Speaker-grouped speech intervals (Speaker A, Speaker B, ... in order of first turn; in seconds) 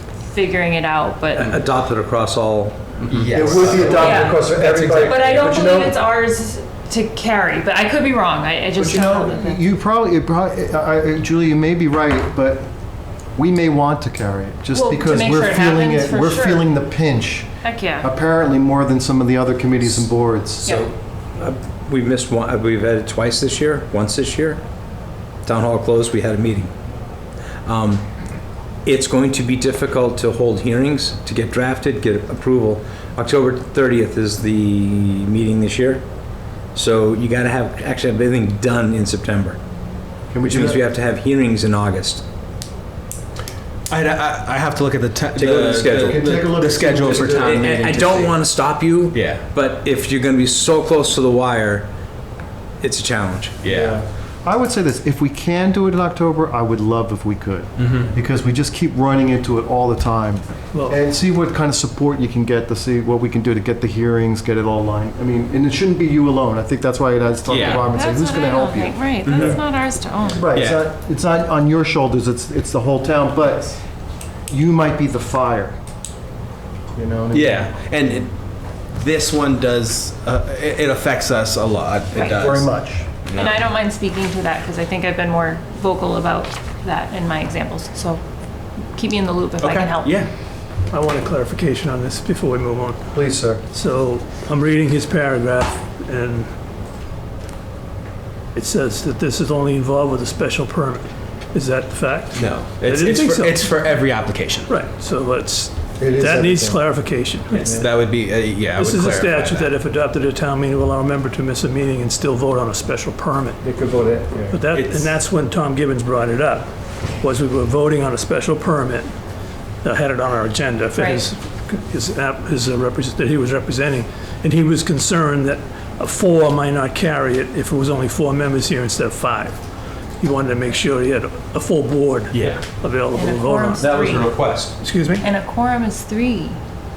Speaker A: 0.3-1.6, 3.9-9.6, 14.7-16.7, 17.6-18.1, 20.6-20.9, 67.7-70.5, 83.3-88.2, 89.0-90.2, 121.0-121.2, 133.1-134.4, 135.2-136.6
Speaker B: 1.3-3.0, 3.6-3.9, 20.7-24.6, 25.4-26.7, 27.7-28.0, 28.8-36.0, 36.8-39.6, 40.4-42.2, 45.4-46.3, 47.2-51.9, 52.8-53.6, 133.8-134.8
Speaker C: 3.0-5.3, 43.9-48.4, 49.1-49.4, 53.6-54.0, 57.8-58.1, 67.5-67.8, 69.2-69.6, 70.5-70.8, 77.3-78.3, 79.0-82.7, 83.3-83.6, 89.6-90.3, 102.3-104.7, 107.6-109.7, 114.6-115.2, 132.3-132.6
Speaker D: 3.3-6.0, 8.8-12.7, 13.4-17.5, 18.0-20.8, 40.3-40.8, 45.9-47.6, 53.7-69.6, 70.3-73.8, 74.5-75.8, 77.0-77.7, 82.2-83.1, 93.1-93.6, 106.0-106.8, 107.5-107.9, 113.6-114.5
Speaker E: 60.7-61.0, 90.9-93.1, 93.7-96.5, 98.5-103.7, 104.7-107.9, 108.7-113.6, 114.5-119.2, 119.8-129.6, 130.2-133.8, 134.8-135.3